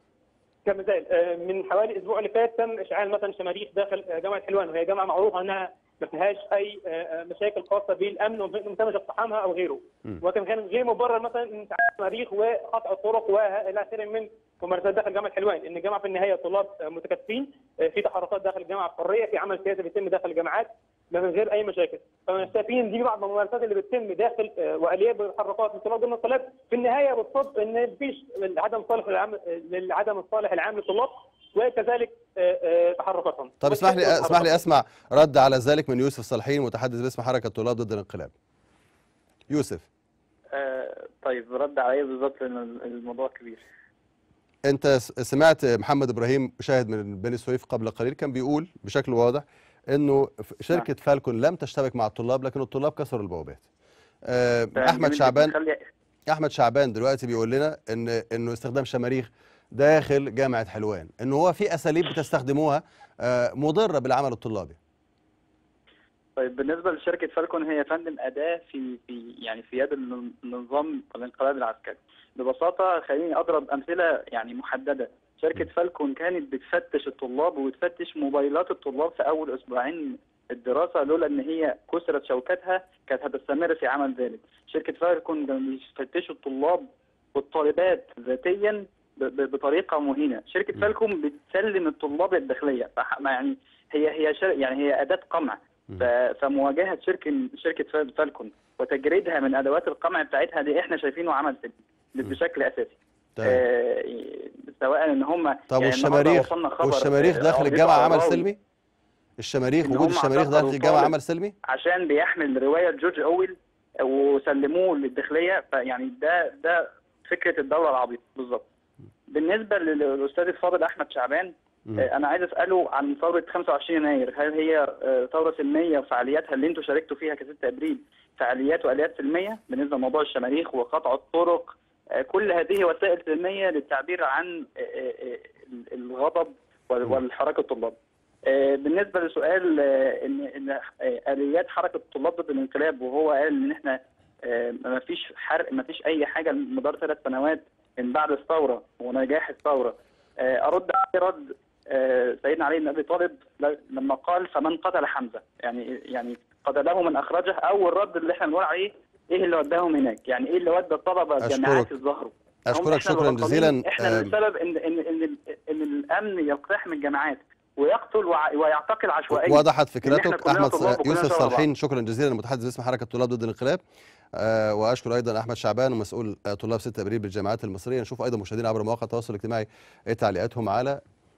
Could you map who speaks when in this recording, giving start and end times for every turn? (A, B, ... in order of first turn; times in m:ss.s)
0:00.6-0:34.6 A
0:33.6-0:38.3 B
0:39.5-0:39.8 B
0:40.5-0:43.6 C
0:44.6-0:53.6 B
0:54.3-0:55.5 B
0:54.8-0:55.8 C
0:56.3-1:04.8 B
1:06.4-1:48.4 C
1:43.4-1:43.6 B
1:45.7-1:48.6 B
1:49.4-1:51.5 B
1:49.8-1:51.1 C
1:51.6-1:58.6 C
1:59.3-2:51.6 C
2:41.4-2:41.9 B
2:42.7-2:44.3 B
2:49.3-2:53.8 B
2:54.4-3:01.0 B